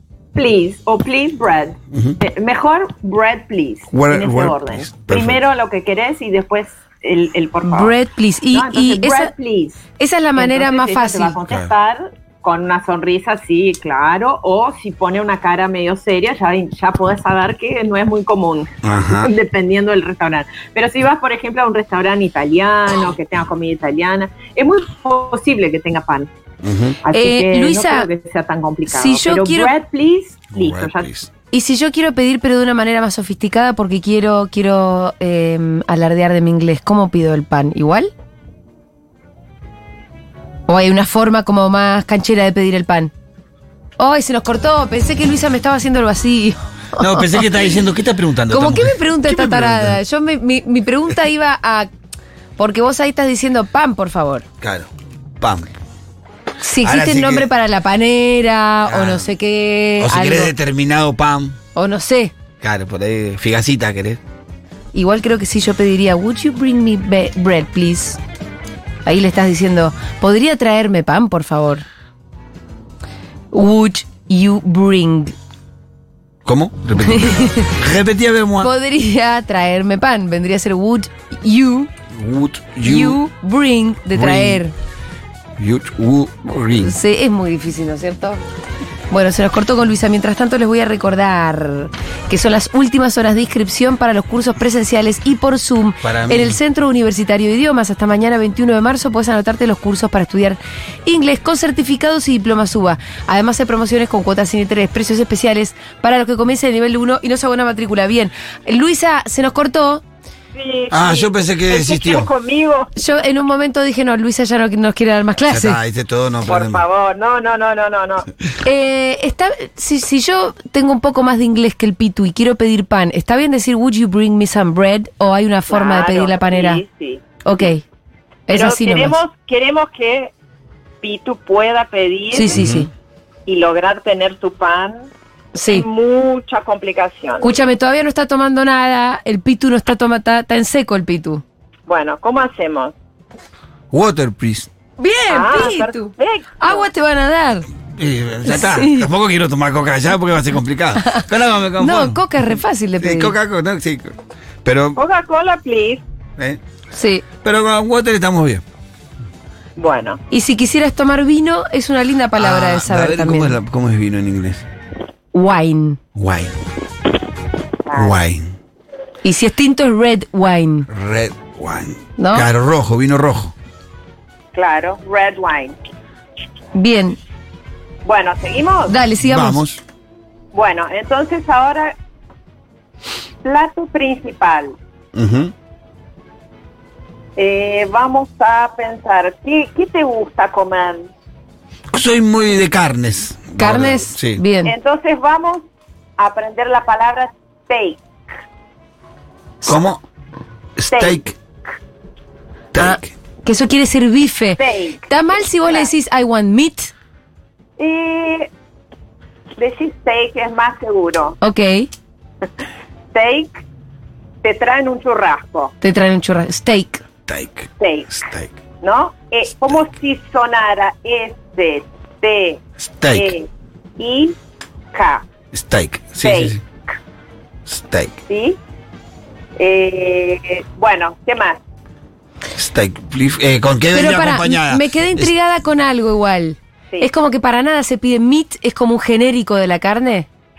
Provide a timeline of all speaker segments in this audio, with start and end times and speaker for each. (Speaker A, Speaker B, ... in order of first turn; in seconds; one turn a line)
Speaker A: 0.3-8.0
Speaker B: 3.9-5.4
Speaker C: 7.6-9.3
Speaker A: 8.5-9.8
Speaker C: 10.0-11.4
Speaker A: 10.4-26.3
Speaker B: 18.8-19.3
Speaker B: 26.6-27.0
Speaker A: 27.0-31.1
Speaker C: 27.1-28.1
Speaker C: 28.9-29.7
Speaker B: 30.5-31.3
Speaker C: 31.5-38.1
Speaker C: 40.7-43.1
Speaker C: 44.0-47.4
Speaker B: 47.0-50.0
Speaker C: 48.5-51.9
Speaker C: 52.6-54.4
Speaker B: 54.6-54.9
Speaker B: 55.4-55.7
Speaker C: 56.6-60.5
Speaker B: 56.8-57.5
Speaker B: 58.9-59.3
Speaker B: 60.0-61.6
Speaker C: 61.7-62.3
Speaker B: 62.6-64.2
Speaker C: 64.9-68.2
Speaker C: 69.0-71.8
Speaker C: 73.5-75.3
Speaker B: 76.5-78.7
Speaker C: 77.0-77.7
Speaker C: 78.6-81.9
Speaker B: 82.1-83.2
Speaker C: 82.8-84.7
Speaker B: 84.1-84.6
Speaker B: 85.6-87.0
Speaker C: 86.8-88.4
Speaker C: 89.1-110.0
Speaker B: 96.0-96.6
Speaker A: 110.5-112.9
Speaker B: 110.9-112.3
Speaker C: 113.0-115.8
Speaker B: 115.5-116.8
Speaker A: 116.5-118.3
Speaker C: 118.6-126.8
Speaker A: 125.7-127.2
Speaker C: 127.5-127.8
Speaker C: 128.5-129.2
Speaker A: 128.5-130.3
Speaker A: 131.0-132.6
Speaker C: 132.3-132.9
Speaker B: 132.5-132.9
Speaker A: 133.5-135.1
Speaker C: 135.6-135.9
Speaker A: 135.7-137.6
Speaker C: 137.4-141.4
Speaker A: 141.9-142.9
Speaker B: 143.9-144.7
Speaker C: 145.0-147.7
Speaker A: 145.3-146.9
Speaker B: 148.0-155.0
Speaker C: 148.4-149.1
Speaker C: 151.8-153.3
Speaker A: 155.0-156.0
Speaker C: 156.9-157.2
Speaker B: 157.4-158.6
Speaker A: 159.8-160.2
Speaker C: 160.3-163.6
Speaker B: 162.4-164.7
Speaker C: 165.3-166.0
Speaker B: 166.2-166.5
Speaker A: 167.9-168.2
Speaker B: 167.9-168.5
Speaker C: 169.2-170.9
Speaker B: 170.9-173.5
Speaker C: 172.2-172.5
Speaker A: 174.5-175.8
Speaker C: 176.8-177.2
Speaker A: 178.1-179.0
Speaker C: 178.9-179.6
Speaker B: 179.2-179.8
Speaker A: 180.5-182.0
Speaker A: 183.4-184.8
Speaker B: 185.1-185.5
Speaker A: 187.4-191.1
Speaker B: 191.9-194.4
Speaker C: 193.6-194.8
Speaker A: 194.7-195.6
Speaker A: 196.2-198.0
Speaker B: 199.6-200.0
Speaker B: 200.8-201.3
Speaker A: 200.9-201.2
Speaker B: 202.7-203.1
Speaker C: 202.8-206.9
Speaker A: 204.6-205.9
Speaker A: 207.8-208.5
Speaker A: 209.6-211.4
Speaker C: 211.4-211.9
Speaker A: 213.1-213.6
Speaker A: 214.4-215.7
Speaker C: 215.8-217.0
Speaker B: 217.3-218.5
Speaker A: 217.8-218.2
Speaker A: 218.8-224.4
Speaker B: 222.8-223.3
Speaker A: 224.9-225.2
Speaker B: 225.5-226.6
Speaker A: 226.2-226.6
Speaker B: 227.7-228.2
Speaker A: 228.3-228.6
Speaker A: 229.6-231.6
Speaker B: 232.6-235.3
Speaker C: 233.9-240.3